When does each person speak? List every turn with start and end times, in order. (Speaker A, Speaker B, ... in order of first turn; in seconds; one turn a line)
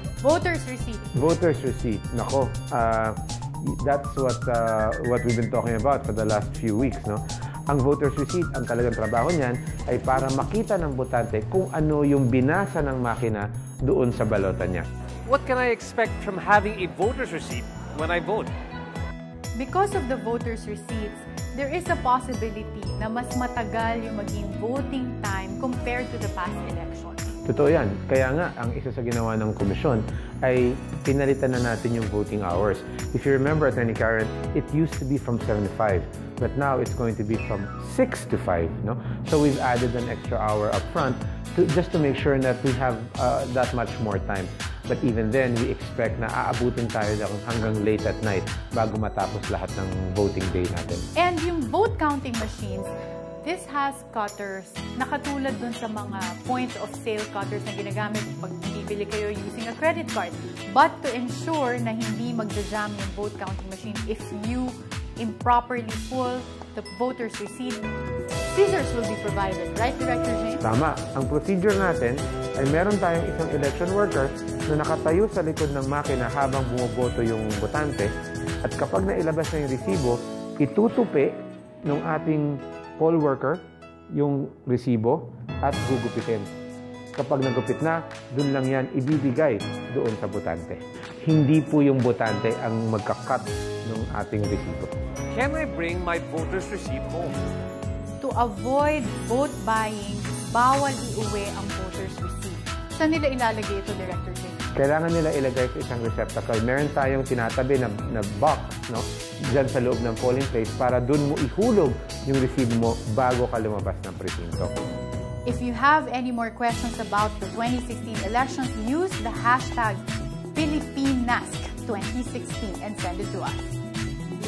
Speaker A: 0.2-1.1
Speaker B: 1.1-14.9
Speaker C: 15.3-18.5
Speaker A: 19.6-27.2
Speaker B: 27.5-51.1
Speaker A: 51.1-52.9
Speaker A: 53.4-67.9
Speaker A: 68.5-70.6
Speaker B: 70.6-78.1
Speaker B: 78.6-86.5
Speaker B: 87.2-94.9
Speaker C: 95.3-97.4
Speaker A: 98.2-104.6
Speaker B: 104.8-114.7
Speaker A: 115.5-123.6